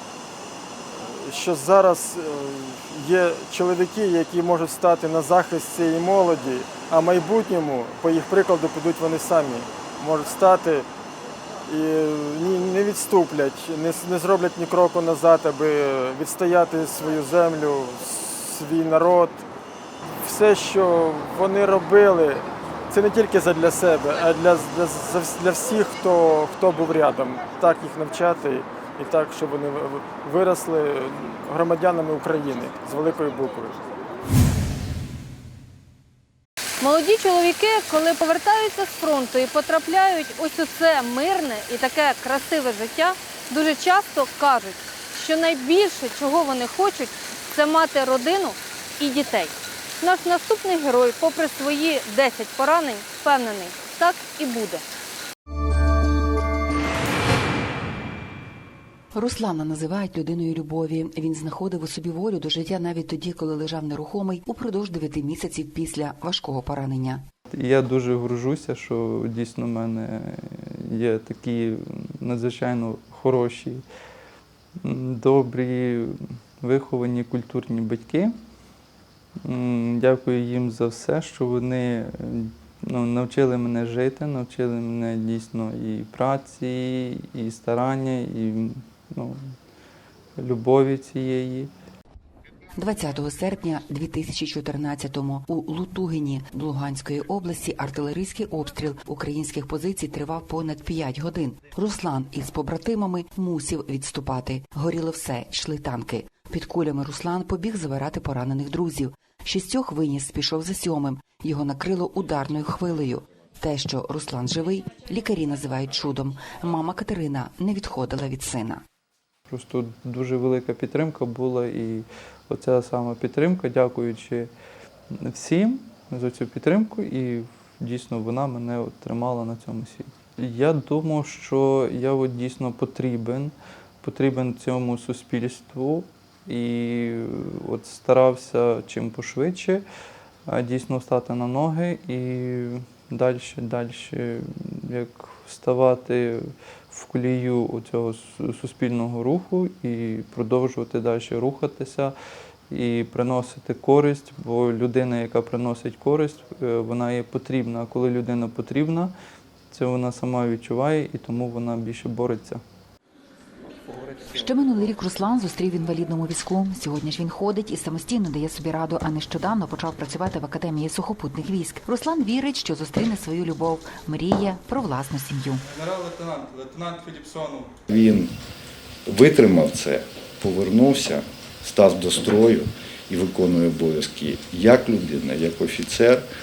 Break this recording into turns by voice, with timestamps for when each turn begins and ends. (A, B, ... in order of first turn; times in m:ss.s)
0:00.9-0:10.8 A
0:11.7-0:19.4 A
0:20.2-0:33.8 A
0:36.8-0:54.8 B
0:59.1-1:07.2 C
1:07.5-1:13.8 D
1:14.8-1:18.3 D
1:19.4-1:29.4 D
1:30.4-1:31.7 D
1:32.8-1:58.8 C
1:59.5-2:04.5 D
2:05.3-2:19.8 D
2:20.5-2:32.1 D
2:32.7-2:39.1 D
2:39.7-2:42.6 D
2:44.1-2:55.6 C
2:55.7-2:57.7 D
2:57.9-2:58.3 E
2:59.0-3:06.3 E